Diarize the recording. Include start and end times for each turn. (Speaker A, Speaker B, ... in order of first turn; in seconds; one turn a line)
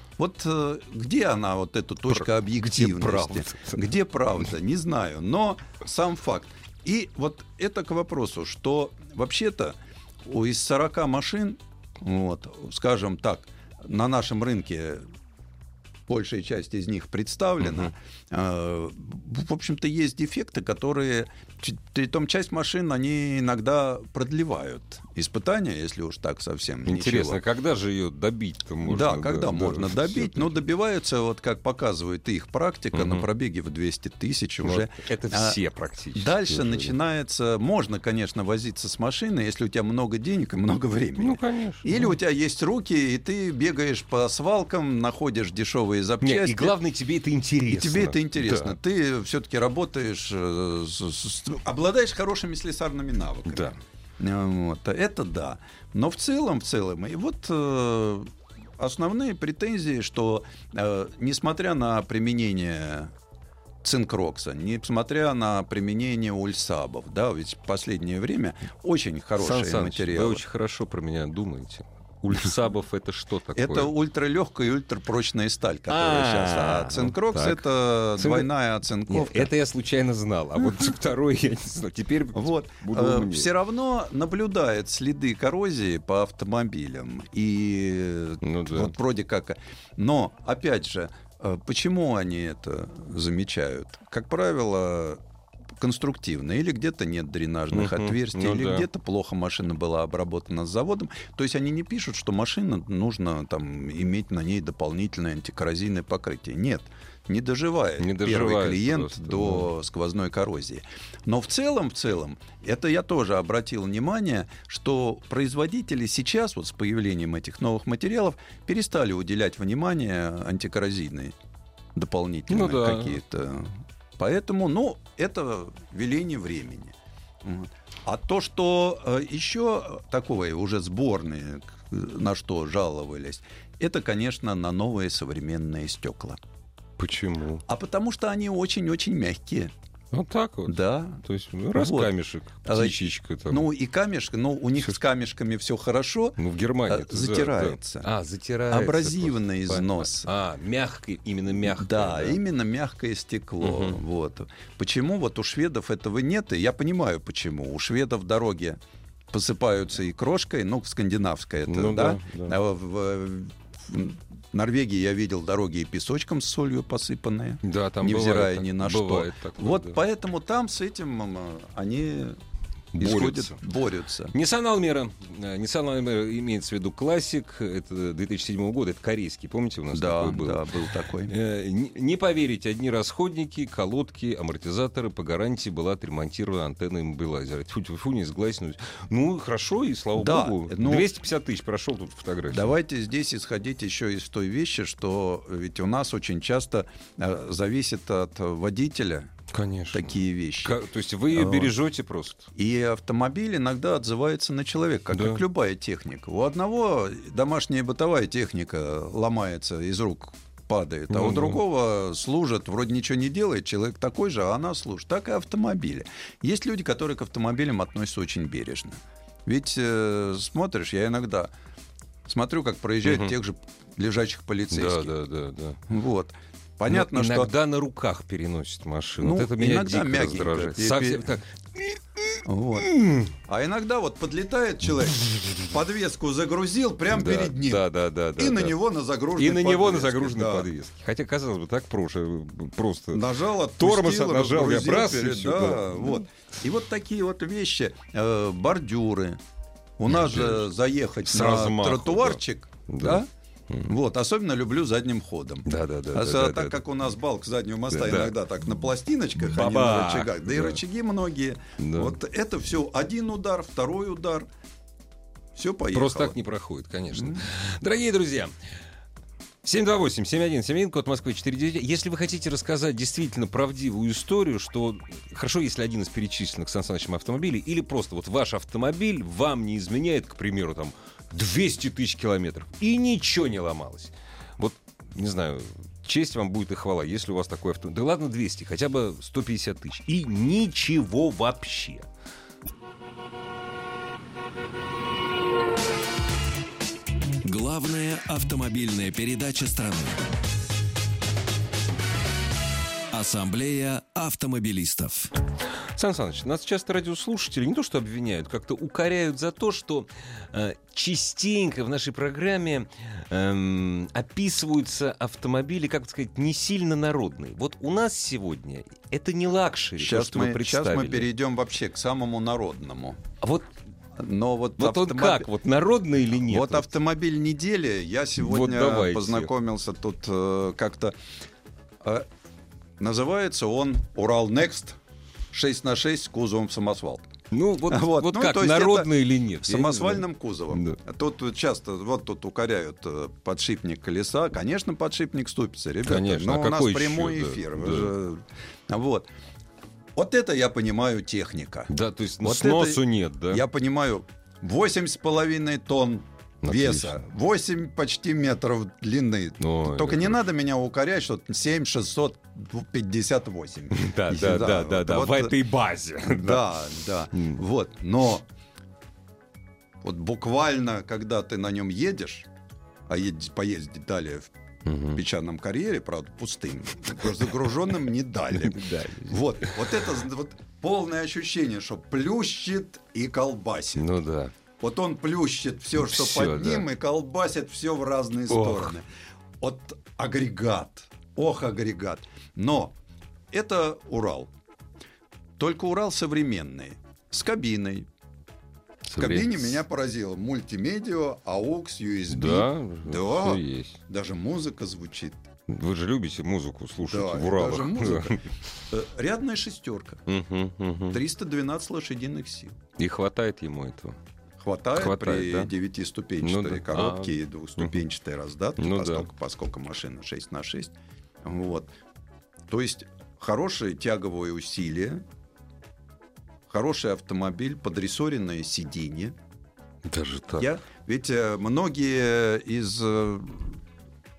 Speaker A: 0.2-15.1
Speaker B: 2.1-3.9
Speaker A: 16.1-27.4
Speaker B: 17.6-17.9
Speaker B: 26.9-30.6
Speaker A: 28.8-35.6
Speaker B: 32.9-33.2
Speaker B: 34.6-37.0
Speaker A: 36.1-46.7
Speaker B: 41.2-42.1
Speaker B: 46.2-48.8
Speaker A: 47.7-63.1
Speaker B: 53.5-53.8
Speaker A: 63.8-70.4
Speaker B: 69.4-73.9
Speaker A: 73.5-79.5
Speaker B: 75.9-78.5
Speaker B: 79.1-83.5
Speaker A: 82.3-95.2
Speaker B: 88.4-88.9
Speaker A: 95.8-121.3
Speaker B: 97.7-98.9
Speaker B: 108.0-109.7
Speaker A: 121.9-136.4
Speaker B: 122.5-123.2
Speaker B: 137.0-137.6
Speaker A: 137.7-139.7
Speaker B: 140.1-143.7
Speaker A: 140.7-148.1
Speaker B: 146.4-152.4
Speaker A: 148.7-150.3
Speaker A: 151.6-158.8
Speaker B: 153.6-154.0
Speaker A: 159.3-172.4
Speaker B: 161.7-162.6
Speaker B: 167.6-170.0
Speaker B: 172.9-173.6
Speaker A: 173.0-174.3
Speaker B: 174.3-180.6
Speaker A: 179.9-181.3
Speaker B: 181.2-192.7
Speaker A: 190.2-191.1
Speaker A: 192.5-199.3
Speaker B: 199.5-202.5
Speaker A: 199.9-200.8
Speaker A: 201.3-201.7
Speaker A: 202.5-221.5
Speaker B: 205.1-205.4
Speaker B: 211.1-211.6
Speaker A: 222.2-225.1
Speaker B: 223.0-223.3
Speaker B: 224.7-225.8
Speaker A: 225.9-227.5
Speaker B: 226.9-233.3
Speaker A: 229.2-231.4
Speaker A: 232.4-237.8
Speaker B: 235.2-235.7
Speaker B: 237.1-238.7
Speaker A: 238.3-240.7
Speaker B: 239.3-243.2
Speaker A: 243.1-249.4
Speaker B: 243.8-246.2
Speaker A: 250.0-253.3
Speaker B: 250.1-250.7
Speaker B: 251.2-253.9
Speaker A: 253.8-264.5
Speaker B: 255.7-256.8
Speaker B: 257.9-258.3
Speaker B: 259.4-260.8
Speaker B: 261.8-262.2
Speaker A: 265.5-266.3
Speaker B: 265.9-268.5
Speaker B: 269.6-292.1
Speaker C: 297.4-300.2
Speaker C: 303.1-305.3
Speaker B: 305.9-321.3
Speaker A: 320.0-323.2
Speaker B: 323.4-323.7
Speaker A: 324.1-325.5
Speaker B: 324.8-326.9
Speaker A: 326.4-331.1
Speaker B: 328.4-329.5
Speaker A: 332.0-332.3
Speaker A: 333.0-335.0
Speaker A: 335.5-337.3
Speaker B: 337.5-341.0
Speaker A: 337.9-349.3
Speaker B: 346.0-348.1
Speaker A: 350.1-351.9
Speaker B: 351.9-353.6
Speaker A: 352.4-365.5
Speaker B: 356.6-357.2
Speaker B: 359.6-360.4
Speaker B: 363.9-366.7
Speaker A: 366.3-368.4
Speaker A: 370.0-372.5
Speaker A: 373.1-374.5
Speaker B: 374.8-375.2
Speaker A: 375.1-384.1
Speaker B: 378.5-380.1
Speaker B: 384.0-384.5
Speaker A: 384.8-389.1
Speaker B: 385.9-386.9
Speaker B: 388.5-388.9
Speaker A: 389.6-392.9
Speaker A: 393.5-394.5
Speaker A: 395.6-398.1
Speaker B: 399.0-399.8
Speaker A: 399.1-405.4
Speaker B: 402.3-404.0
Speaker B: 405.7-408.5
Speaker A: 407.0-410.2
Speaker B: 410.3-411.2
Speaker A: 411.1-412.8
Speaker B: 413.0-414.2
Speaker A: 414.6-421.9
Speaker B: 414.9-415.7
Speaker B: 416.4-417.9
Speaker B: 418.8-419.3
Speaker A: 422.7-425.2
Speaker A: 426.7-429.3
Speaker B: 430.0-430.7
Speaker A: 430.6-433.8